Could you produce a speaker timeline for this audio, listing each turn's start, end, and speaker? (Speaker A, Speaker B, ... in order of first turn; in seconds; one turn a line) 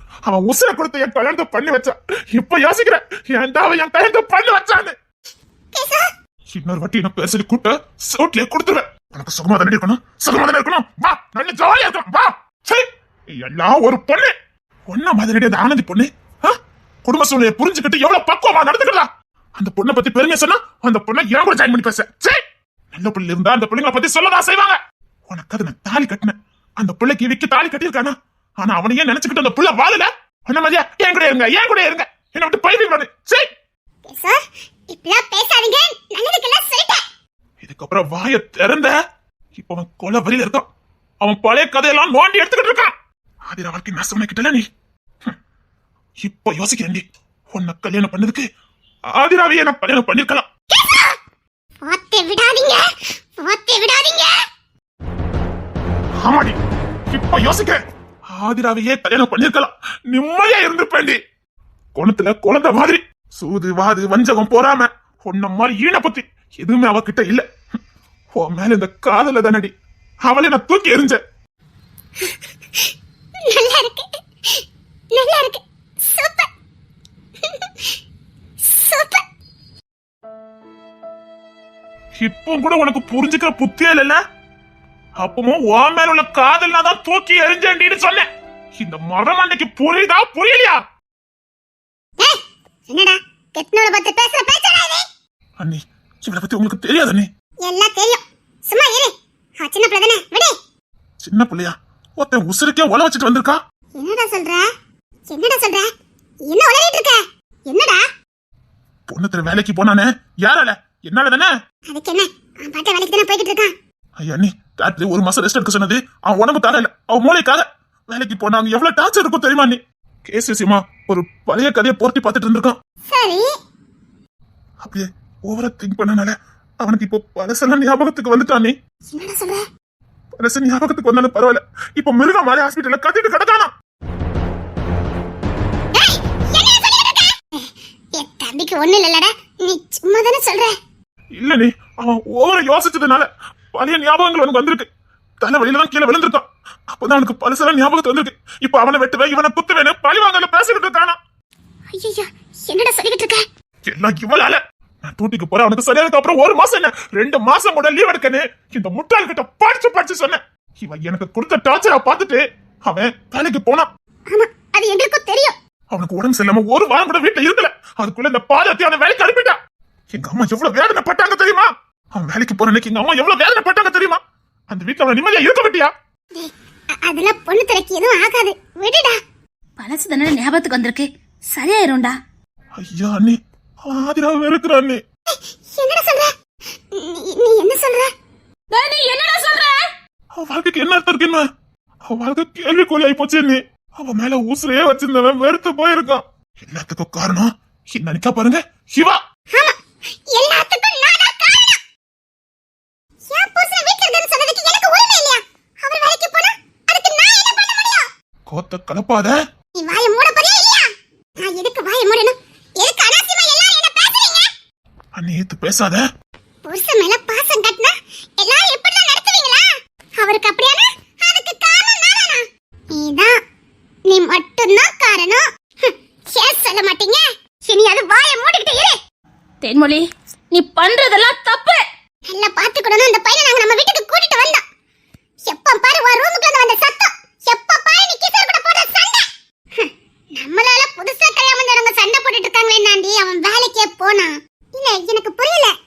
Speaker A: 0.2-4.9
Speaker B: 5.7-6.1
Speaker A: 6.5-12.8
Speaker A: 13.4-14.3
Speaker A: 14.9-16.5
Speaker A: 17.0-22.4
Speaker A: 22.9-24.8
Speaker A: 25.3-33.5
Speaker B: 34.0-37.0
Speaker A: 37.6-38.9
Speaker A: 39.5-40.6
Speaker A: 41.2-42.9
Speaker A: 43.5-44.6
Speaker A: 46.2-47.0
Speaker A: 47.5-48.4
Speaker A: 49.1-50.4
Speaker B: 51.8-52.9
Speaker B: 53.4-54.3
Speaker A: 56.2-56.5
Speaker A: 57.1-57.8
Speaker A: 58.3-61.2
Speaker A: 61.9-67.4
Speaker A: 68.3-69.7
Speaker A: 70.2-71.2
Speaker B: 73.5-74.6
Speaker B: 75.1-76.5
Speaker B: 77.4-77.9
Speaker B: 78.6-79.2
Speaker A: 82.2-84.2
Speaker A: 85.2-88.2
Speaker A: 88.8-90.8
Speaker B: 92.2-95.0
Speaker A: 95.6-97.3
Speaker B: 97.6-100.5
Speaker A: 101.2-103.5
Speaker B: 103.9-104.6
Speaker B: 105.3-105.8
Speaker B: 106.5-108.0
Speaker A: 109.1-111.5
Speaker B: 111.9-113.7
Speaker A: 114.2-122.7
Speaker B: 123.1-123.5
Speaker A: 124.8-128.7
Speaker B: 129.1-129.6
Speaker A: 130.4-133.7
Speaker B: 135.9-140.7
Speaker A: 141.4-144.9
Speaker A: 145.4-151.2
Speaker B: 151.9-153.4
Speaker A: 153.8-163.9
Speaker B: 164.3-165.5
Speaker A: 165.9-169.6
Speaker A: 170.1-174.2
Speaker A: 174.7-175.9
Speaker B: 177.0-179.2
Speaker C: 179.8-182.2
Speaker A: 182.8-183.3
Speaker A: 183.9-185.0
Speaker B: 185.7-186.3
Speaker B: 186.9-188.1
Speaker C: 188.7-189.8
Speaker A: 190.3-191.4
Speaker A: 192.1-199.2
Speaker B: 200.3-201.8
Speaker B: 203.3-208.1
Speaker A: 208.5-209.3
Speaker B: 209.8-210.9
Speaker B: 211.4-214.5
Speaker A: 215.2-216.0
Speaker B: 216.6-219.7
Speaker B: 220.2-223.3
Speaker B: 224.1-228.9
Speaker C: 229.6-231.8
Speaker B: 232.3-234.6
Speaker B: 235.5-239.2
Speaker B: 239.8-245.7